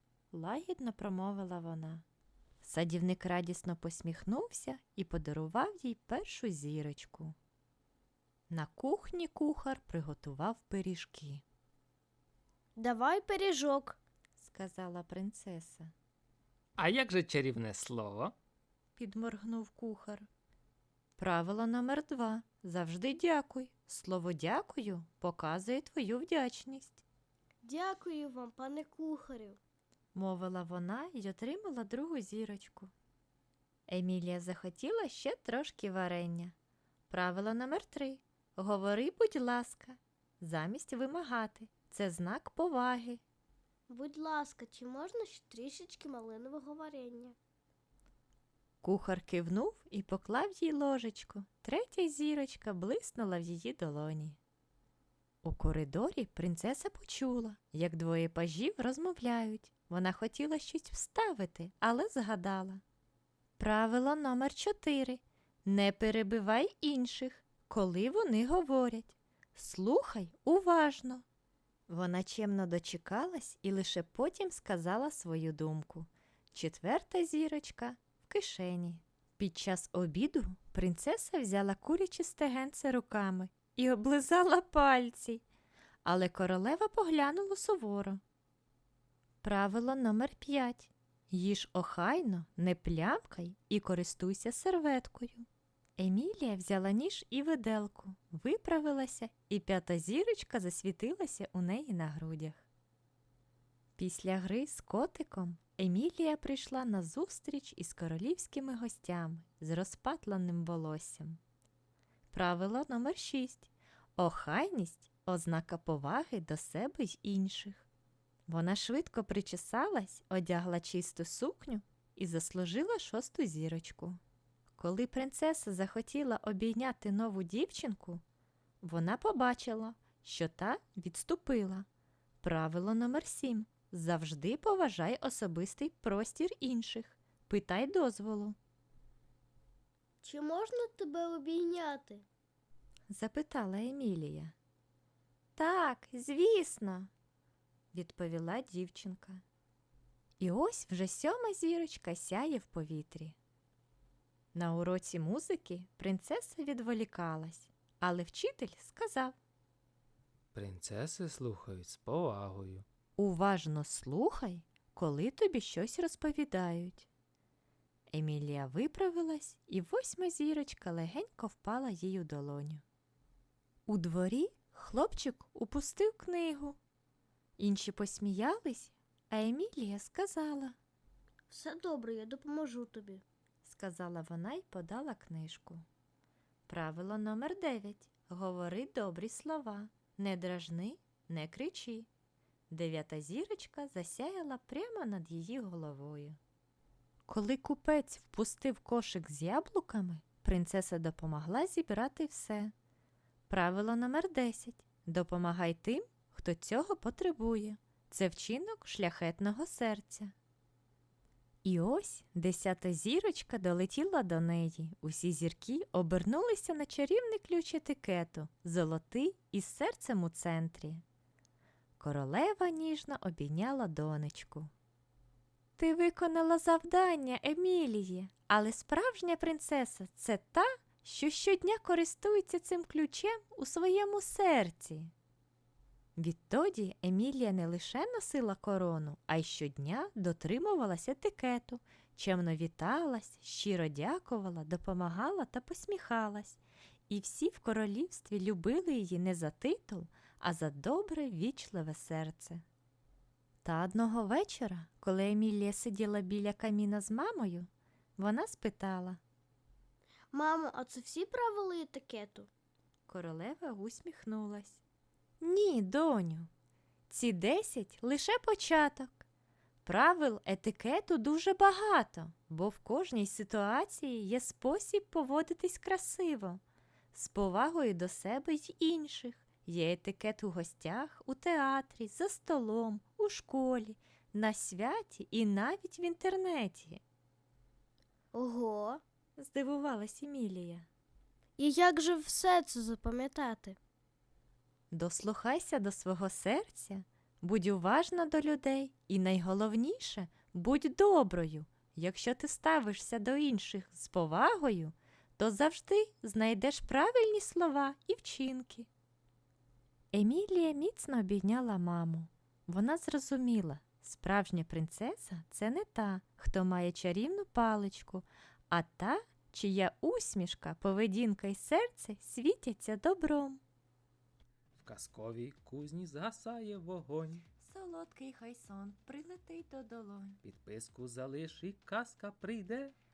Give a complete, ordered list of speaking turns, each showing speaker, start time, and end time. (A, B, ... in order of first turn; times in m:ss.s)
0:00.3-0:02.0 A
0:02.6-0:07.4 A
0:08.5-0:11.4 A
0:12.8-0:14.0 B
0:14.4-0:15.9 A
0:16.8-0:18.3 C
0:19.0-0:20.3 A
0:21.2-0:27.0 A
0:27.6-0:29.6 B
0:30.1-0:32.9 A
0:33.9-0:36.5 A
0:37.1-0:43.2 A
0:43.9-0:47.3 B
0:48.8-0:54.4 A
0:55.4-1:02.8 A
1:03.6-1:11.2 A
1:11.9-1:25.4 A
1:26.0-1:28.2 A
1:29.4-1:35.4 A
1:36.0-1:42.6 A
1:44.0-1:51.4 A
1:52.3-1:57.9 A
1:58.5-2:04.2 A
2:04.8-2:08.2 A
2:08.8-2:11.8 A
2:12.4-2:18.6 A
2:20.2-2:22.2 B
2:23.1-2:24.5 A
2:25.6-2:27.1 A
2:27.9-2:29.4 A
2:30.4-2:33.4 A
2:34.5-2:39.4 A
2:40.5-2:42.8 C
2:43.2-2:47.1 A
2:48.1-2:52.8 A
2:53.9-2:56.8 A
2:57.6-3:00.7 A
3:01.5-3:03.2 B
3:03.6-3:05.8 A
3:06.7-3:12.1 A
3:12.7-3:16.4 A
3:17.3-3:22.7 A
3:23.5-3:30.3 A
3:31.6-3:41.0 A
3:42.0-3:44.7 A
3:45.8-3:55.1 A
3:56.2-4:12.6 A
4:13.6-4:19.2 A
4:20.3-4:22.5 B
4:23.1-4:24.8 A
4:25.4-4:26.5 A
4:27.1-4:29.2 A
4:29.8-4:36.6 A
4:37.1-4:47.0 A
4:48.3-4:49.0 B
4:49.4-4:50.9 A
4:51.6-4:53.8 B
4:54.9-5:08.9 A
5:10.1-5:23.6 A
5:24.8-5:27.4 C
5:27.6-5:30.4 A
5:30.4-5:32.9 C